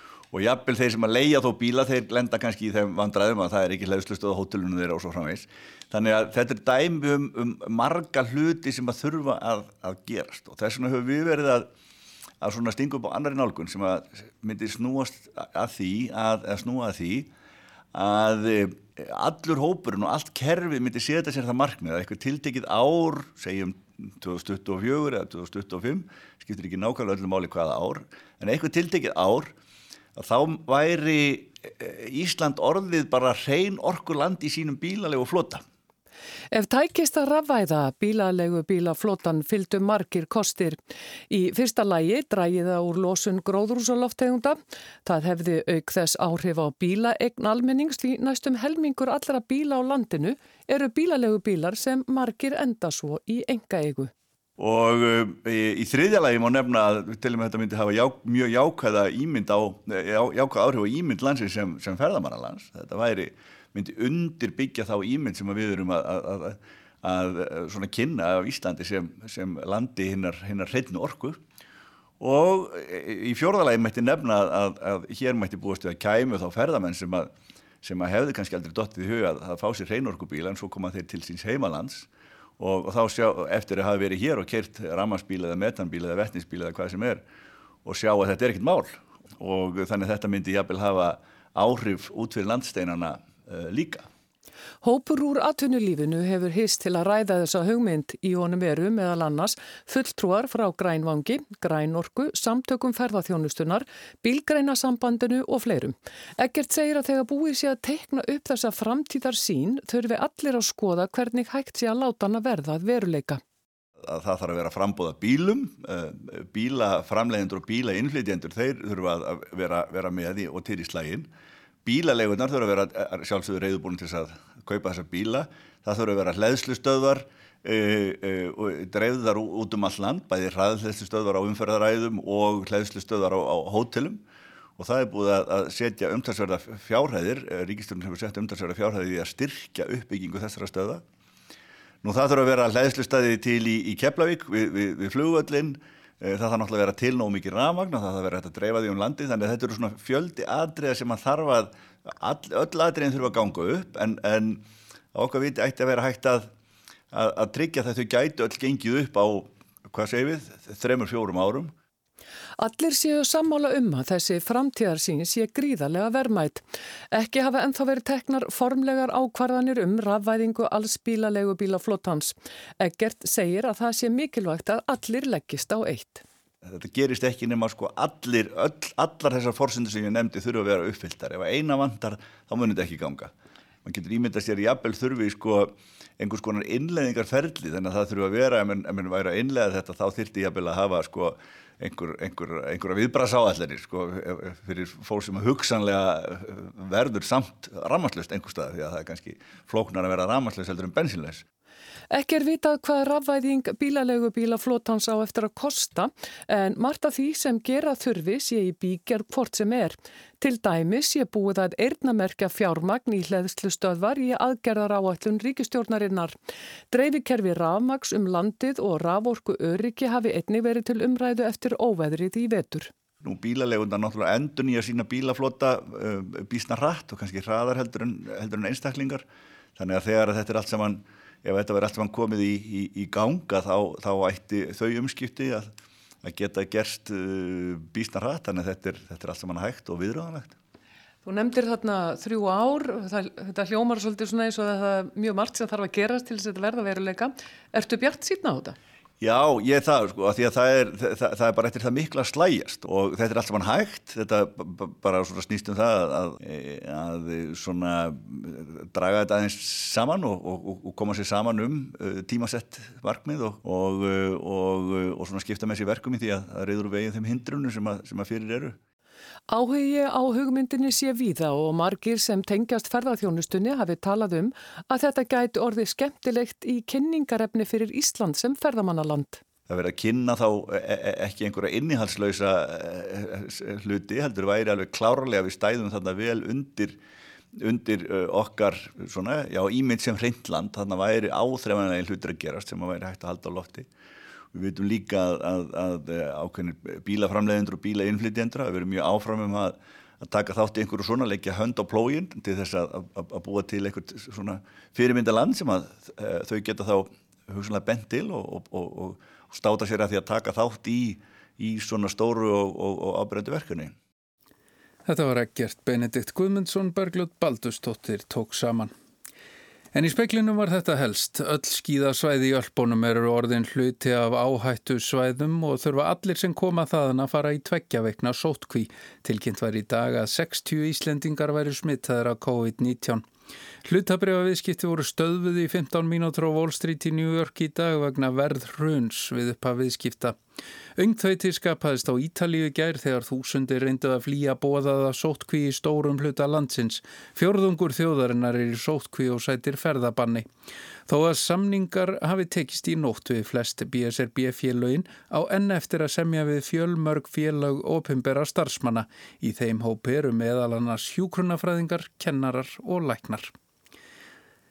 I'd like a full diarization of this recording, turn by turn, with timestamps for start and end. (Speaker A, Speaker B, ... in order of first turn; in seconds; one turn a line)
Speaker A: 0.3-11.7
Speaker A: 12.4-17.3
Speaker A: 17.9-29.5
Speaker A: 30.1-35.6
Speaker B: 36.5-40.8
Speaker B: 41.3-54.1
Speaker A: 54.6-71.4
Speaker A: 72.2-77.3
Speaker A: 77.8-82.1
Speaker A: 82.6-87.2
Speaker A: 87.8-94.1
Speaker B: 94.8-113.4
Speaker A: 114.0-121.3
Speaker A: 121.8-134.2
Speaker A: 134.8-141.0
Speaker A: 142.0-156.5
Speaker A: 157.1-161.7
Speaker B: 162.6-176.2
Speaker A: 176.6-183.3
Speaker A: 183.8-201.4
Speaker B: 202.1-216.3
Speaker B: 216.9-222.9
Speaker A: 223.2-229.2
Speaker A: 229.8-235.7
Speaker A: 236.2-240.6
Speaker B: 241.2-248.8
Speaker A: 249.2-268.8
Speaker B: 269.5-279.4
Speaker A: 279.7-287.0
Speaker A: 287.6-293.9
Speaker A: 294.5-313.9
Speaker C: 315.1-318.9
Speaker C: 319.9-333.2
Speaker C: 333.8-340.4
Speaker C: 341.0-350.5
Speaker C: 351.1-363.5